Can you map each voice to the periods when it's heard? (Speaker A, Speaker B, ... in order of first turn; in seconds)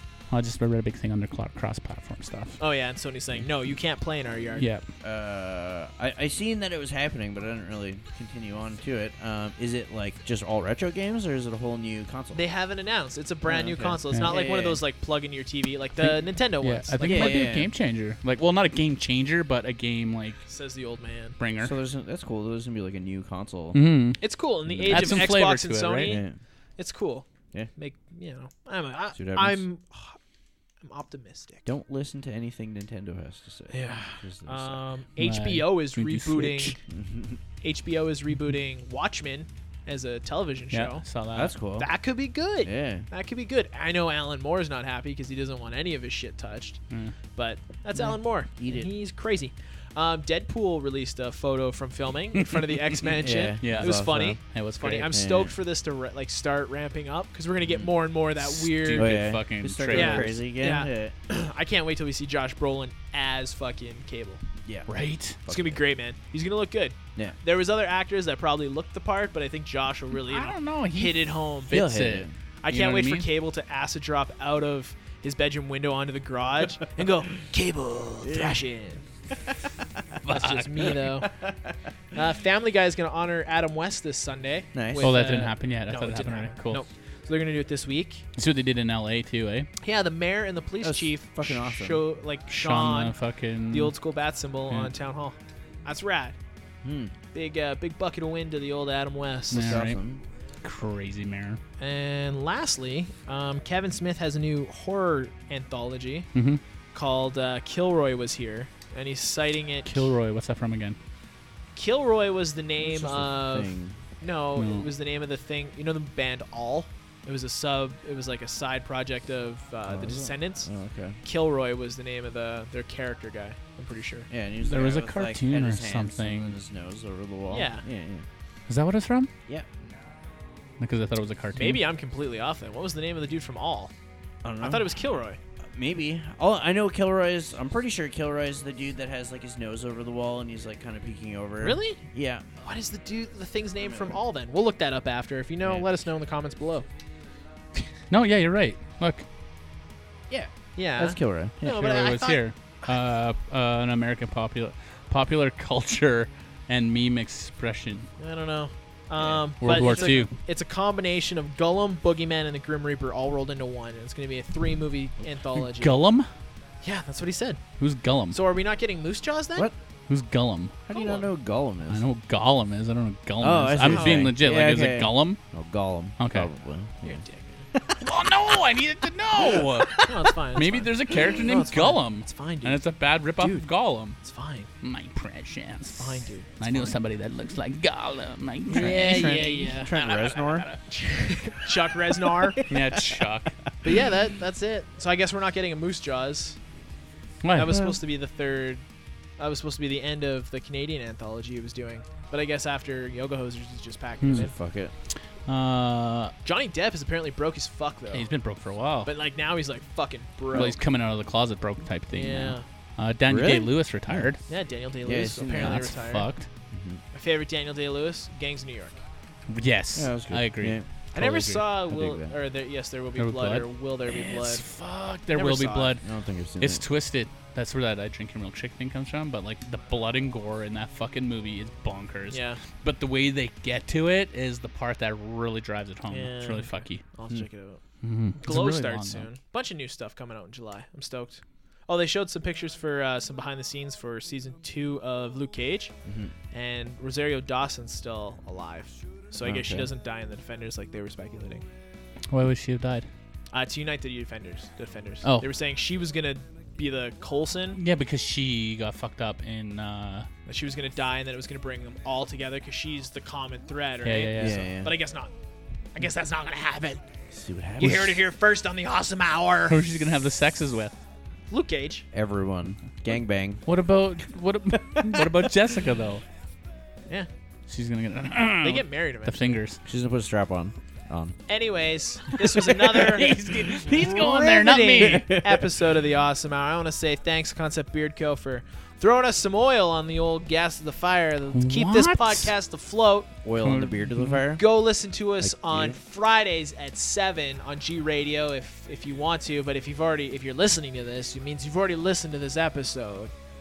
Speaker A: 0.3-2.6, 4.6-4.8, 16.0-20.4, 21.4-21.7, 23.7-24.2, 24.9-26.1, 35.2-36.8, 40.7-41.5, 46.9-47.1, 52.3-53.0, 53.6-55.1, 58.4-60.4, 64.9-65.4, 70.3-73.3, 80.2-81.0, 85.0-86.8, 88.4-89.7, 92.5-93.9, 99.5-100.0, 100.6-101.6, 106.3-106.6, 109.8-111.0, 114.5-114.9, 124.6-126.5, 128.7-129.3, 130.8-131.8, 148.1-149.2, 151.6-158.1, 159.6-160.3, 165.5-166.3, 167.8-168.4, 170.1-170.8, 171.9-175.4, 176.2-176.5, 178.0-184.2, 184.8-190.8, 192.7-193.6, 197.4-197.8, 204.2-204.5, 205.1-206.3, 208.1-209.1, 210.5-214.4, 215.5-216.5, 219.5-221.7, 223.2-226.0, 226.6-237.0, 238.0-239.3, 252.3-253.1, 257.8-260.3, 264.0-264.6, 269.7-271.0, 273.6-276.2, 277.7-279.8, 282.4-285.2, 291.5-292.5, 293.6-294.4
Speaker B: 2.6-4.7, 12.3-17.5, 20.5-21.4, 24.2-26.2, 26.8-30.2, 30.8-31.7, 33.7-36.8, 37.6-41.0, 41.8-46.8, 47.3-59.2, 59.9-64.4, 65.5-71.7, 72.6-79.0, 80.3-81.3, 82.1-88.2, 89.8-93.1, 93.7-96.3, 97.3-99.8, 101.8-106.3, 106.9-110.1, 111.8-120.7, 121.2-124.3, 127.5-127.8, 131.5-133.9, 134.6-135.4, 141.6-142.0, 142.6-146.8, 150.7-152.4, 158.2-166.0, 166.8-167.6, 168.3-169.7, 170.9-171.2, 173.8-174.3, 177.0-177.7, 180.0-182.8, 183.4-183.7, 184.2-184.7, 186.0-186.9, 188.7-189.8, 190.9-192.6, 193.8-196.6, 197.5-198.8, 199.4-204.5, 206.4-208.3, 209.0-210.8, 212.1-212.6, 214.5-216.3, 217.1-219.0, 221.1-224.6, 225.3-225.9, 232.3-232.6, 236.1-237.8, 238.3-245.9, 246.5-251.6, 253.5-257.8, 260.4-265.3, 265.9-267.0, 267.8-269.8, 271.5-272.1, 278.6-279.6, 281.5-293.3, 294.6-303.3
Speaker C: 5.0-12.4, 13.4-14.8, 17.0-17.7, 21.6-23.8, 24.7-25.4, 26.0-26.4, 29.1-29.6, 31.6-34.8, 36.9-37.4, 41.3-41.9, 42.6-43.1, 48.6-48.9, 53.2-54.4, 55.1-55.5, 58.9-61.1, 64.6-64.9, 65.4-65.8, 71.7-72.3, 78.2-78.6, 81.2-81.7, 84.7-85.1, 90.8-92.0, 96.8-97.1, 99.5-100.2, 112.8-114.0, 119.8-121.2, 124.3-128.2, 129.5-129.7, 134.4-134.9, 135.7-142.5, 145.6-145.9, 150.3-151.8, 159.2-160.2, 170.9-172.0, 173.4-177.2, 177.7-178.0, 179.3-180.2, 188.7-190.7, 192.3-193.2, 197.7-198.0, 204.2-204.9, 213.2-214.3, 215.1-215.9, 216.7-217.0, 219.9-220.8, 221.9-222.3, 226.0-226.8, 246.0-246.3, 249.4-249.9, 264.4-264.9, 267.3-268.2, 272.1-273.6, 274.9-275.5, 279.8-281.4, 283.9-284.3, 285.0-285.7, 293.4-294.6, 295.4-296.0